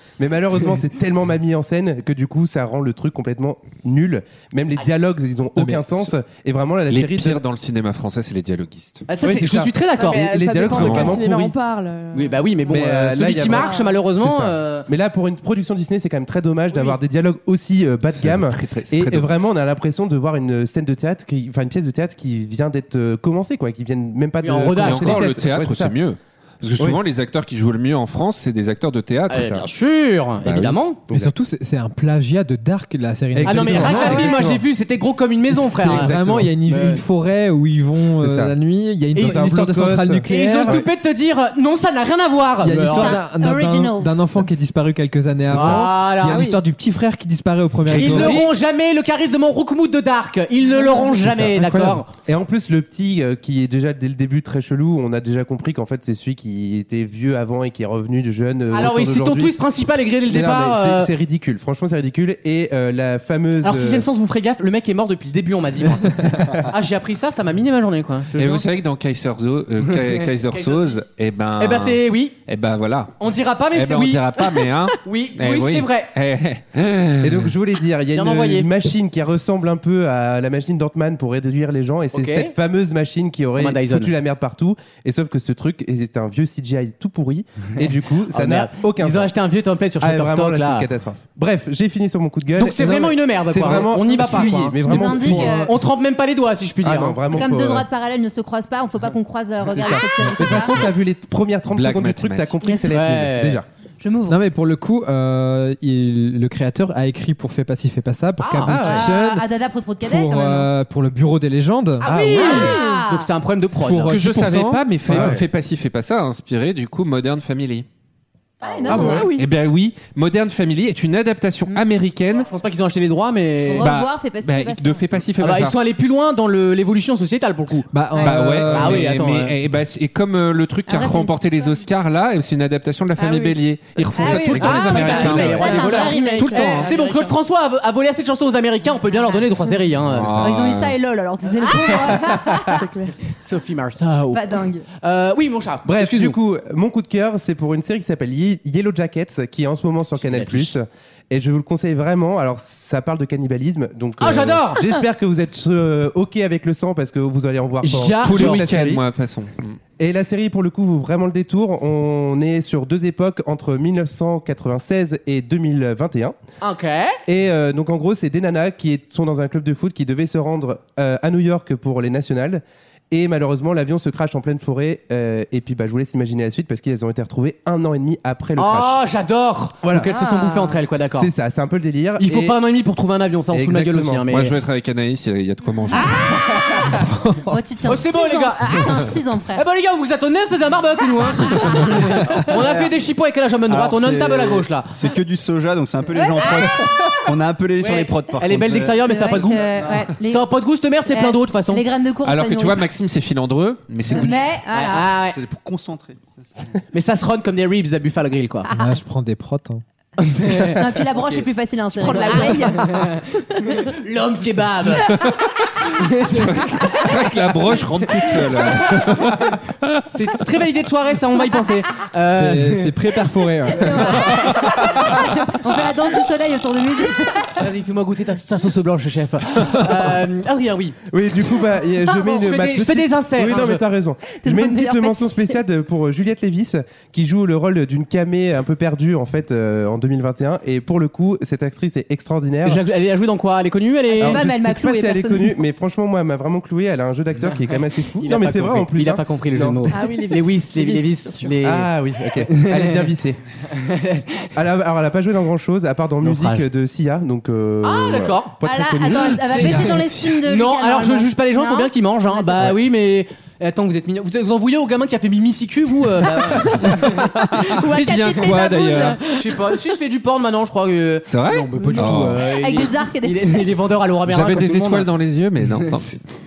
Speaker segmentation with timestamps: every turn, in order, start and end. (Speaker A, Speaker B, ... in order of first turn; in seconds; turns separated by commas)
Speaker A: 0.2-7.4, Speaker B: 6.9-9.1, Speaker C: 9.1-10.4, Speaker A: 9.2-11.5, Speaker D: 9.9-12.8, Speaker B: 10.7-11.2, Speaker C: 12.1-14.9, Speaker A: 12.7-25.9, Speaker D: 13.4-13.9, Speaker B: 18.1-19.4, Speaker C: 24.4-25.3, Speaker B: 24.8-29.6, Speaker C: 29.3-31.0, Speaker A: 29.3-29.6, Speaker B: 30.4-30.8, Speaker E: 31.1-34.4, Speaker A: 33.3-34.6, Speaker C: 33.5-37.0, Speaker E: 35.6-40.9, Speaker A: 35.8-36.5, Speaker A: 38.2-38.5, Speaker A: 39.1-40.9, Speaker C: 39.2-39.5, Speaker C: 40.3-43.2, Speaker E: 42.6-48.4, Speaker F: 42.9-44.3, Speaker A: 45.4-45.9, Speaker C: 45.5-46.6, Speaker C: 47.9-52.1, Speaker B: 47.9-48.5, Speaker E: 51.1-52.0, Speaker A: 52.3-59.6, Speaker C: 58.7-61.1, Speaker A: 60.3-64.1, Speaker C: 63.6-68.3, Speaker A: 68.3-68.7, Speaker B: 68.3-73.2, Speaker C: 70.1-71.0, Speaker C: 71.6-72.3, Speaker C: 73.2-76.1, Speaker B: 73.7-77.5, Speaker A: 77.2-89.3, Speaker C: 78.1-78.7, Speaker C: 82.1-82.5, Speaker C: 83.6-84.1, Speaker C: 88.3-90.9, Speaker A: 90.0-95.9, Speaker C: 92.6-97.2, Speaker E: 92.8-93.1, Speaker F: 94.8-95.7, Speaker A: 96.8-97.9, Speaker F: 97.3-101.0, Speaker A: 99.8-103.7, Speaker B: 101.7-102.5, Speaker F: 102.6-103.0, Speaker C: 102.9-103.6, Speaker F: 104.0-104.4, Speaker E: 104.3-109.5, Speaker C: 108.4-108.9, Speaker A: 108.7-109.0, Speaker F: 108.7-110.7, Speaker E: 110.0-112.1, Speaker C: 112.0-114.2, Speaker A: 112.1-112.6, Speaker F: 112.3-113.3, Speaker D: 112.5-113.0, Speaker E: 113.8-115.4, Speaker B: 114.1-117.9, Speaker A: 115.1-115.4, Speaker F: 118.6-119.3, Speaker C: 118.7-119.2, Speaker A: 118.9-119.3, Speaker D: 118.9-119.5, Speaker B: 119.1-122.5, Speaker C: 122.3-123.9, Speaker F: 123.6-125.0, Speaker B: 123.6-125.8, Speaker C: 125.4-127.9, Speaker E: 127.9-129.2, Speaker B: 128.2-136.9, Speaker C: 128.7-129.6, Speaker F: 130.9-131.8, Speaker D: 133.2-137.4, Speaker F: 134.2-136.9, Speaker C: 134.6-140.3, Speaker B: 140.1-141.0, Speaker F: 140.4-142.8, Speaker C: 141.6-142.4, Speaker D: 142.7-143.2, Speaker C: 143.3-144.5, Speaker F: 144.3-144.9, Speaker C: 145.0-146.4, Speaker A: 145.8-159.0, Speaker C: 150.2-150.7, Speaker C: 154.2-154.9, Speaker C: 157.8-158.7, Speaker B: 158.2-159.8, Speaker A: 160.0-166.4, Speaker C: 166.6-167.2, Speaker A: 167.3-179.0, Speaker C: 178.6-181.3, Speaker A: 179.8-180.1, Speaker A: 181.1-182.6, Speaker C: 182.2-184.5, Speaker A: 183.5-184.4, Speaker B: 184.3-186.3, Speaker F: 185.9-189.6, Speaker C: 186.6-187.0, Speaker C: 187.8-194.9, Speaker G: 193.7-199.1, Speaker F: 196.1-197.1, Speaker C: 197.8-201.8, Speaker F: 199.1-200.5, Speaker F: 201.1-202.8, Speaker B: 202.2-204.5, Speaker F: 204.1-205.1, Speaker C: 204.7-205.4, Speaker G: 205.2-206.2, Speaker C: 206.9-208.7, Speaker F: 208.7-208.9, Speaker E: 208.7-209.8, Speaker C: 210.2-211.4, Speaker F: 210.7-212.7, Speaker D: 212.0-212.9, Speaker C: 212.1-217.1, Speaker B: 215.1-215.4, Speaker B: 216.0-220.0, Speaker C: 218.2-219.3, Speaker C: 220.1-223.0, Speaker E: 222.3-224.1, Speaker C: 223.8-224.6, Speaker F: 223.8-227.7, Speaker C: 227.6-231.0, Speaker A: 231.1-242.8, Speaker C: 232.2-233.8, Speaker F: 234.4-235.6, Speaker C: 242.7-244.4, Speaker F: 244.1-245.6, Speaker A: 244.2-249.9, Speaker C: 248.2-253.1, Speaker D: 249.9-251.6, Speaker A: 251.6-253.4, Speaker C: 253.7-254.5, Speaker A: 254.6-260.1, Speaker C: 256.2-256.6, Speaker C: 257.8-258.6, Speaker F: 258.6-262.8, Speaker C: 259.4-267.4, Speaker B: 267.5-269.2, Speaker D: 267.6-269.4, Speaker C: 269.4-275.1, Speaker B: 271.3-272.4, Speaker D: 271.8-272.1, Speaker F: 272.4-273.6, Speaker B: 274.3-276.2